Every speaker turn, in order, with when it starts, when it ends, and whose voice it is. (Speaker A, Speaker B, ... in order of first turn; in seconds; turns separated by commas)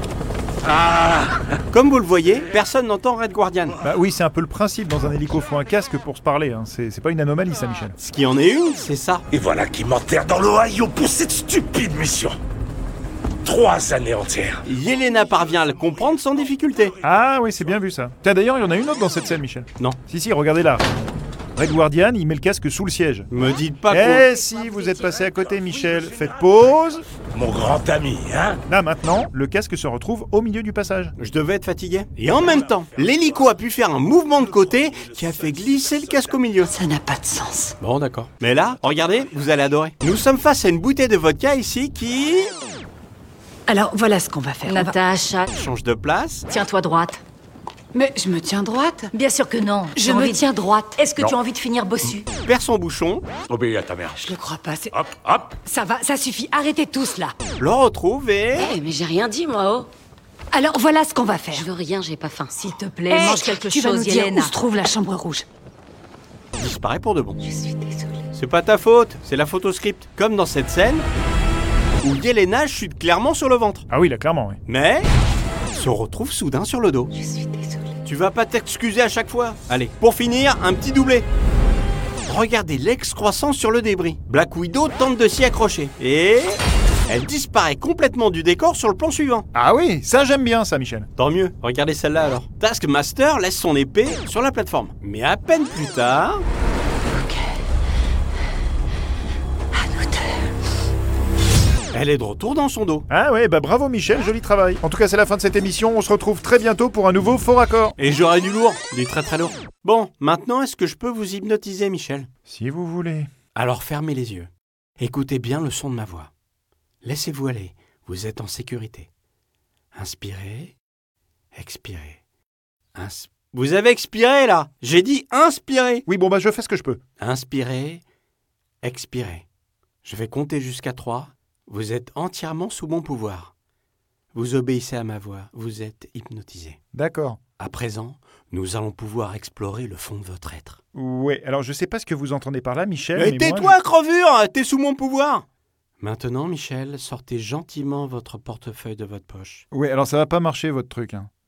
Speaker A: 0.6-1.4, Speaker B: 1.7-3.8, Speaker C: 3.8-8.0, Speaker B: 8.0-9.2, Speaker A: 9.3-12.4, Speaker A: 13.4-14.6, Speaker B: 14.7-16.9, Speaker C: 17.0-21.0, Speaker C: 21.5-23.3, Speaker B: 23.3-24.2, Speaker C: 23.9-27.0, Speaker A: 27.3-28.6, Speaker C: 28.7-31.1, Speaker B: 31.2-36.7, Speaker D: 36.7-37.7, Speaker B: 37.8-42.5, Speaker D: 43.7-45.0, Speaker E: 44.6-45.5, Speaker B: 45.5-46.5, Speaker E: 46.5-47.2, Speaker D: 47.9-49.1, Speaker E: 49.1-52.2, Speaker D: 49.9-51.1, Speaker B: 52.4-53.2, Speaker A: 53.5-54.3, Speaker D: 54.2-54.9, Speaker A: 54.9-55.5, Speaker D: 55.6-57.3, Speaker B: 57.6-58.7, Speaker F: 58.6-59.9, Speaker D: 60.5-61.7, Speaker F: 61.5-63.4, Speaker D: 62.6-65.4, Speaker E: 63.1-64.6, Speaker B: 66.6-67.4, Speaker F: 67.5-68.1, Speaker B: 68.3-71.0, Speaker B: 72.0-73.8, Speaker C: 73.9-74.6, Speaker B: 74.7-75.1, Speaker B: 75.7-77.1, Speaker F: 77.3-77.8, Speaker B: 78.0-81.2, Speaker B: 82.2-89.5, Speaker C: 89.5-91.1, Speaker B: 91.2-96.4, Speaker D: 99.8-100.2, Speaker B: 101.9-103.0, Speaker C: 103.1-107.9, Speaker B: 108.0-112.3, Speaker C: 112.5-113.3, Speaker B: 113.5-116.3, Speaker B: 117.0-119.1, Speaker B: 119.9-120.7, Speaker B: 121.5-122.2, Speaker B: 122.9-126.0, Speaker C: 126.0-127.0, Speaker B: 127.2-128.0, Speaker B: 128.8-129.4, Speaker B: 130.0-133.5, Speaker B: 134.3-136.8, Speaker C: 136.9-137.4, Speaker B: 137.6-140.8, Speaker C: 140.9-143.8, Speaker B: 143.1-145.4, Speaker B: 146.0-149.6, Speaker C: 149.7-151.3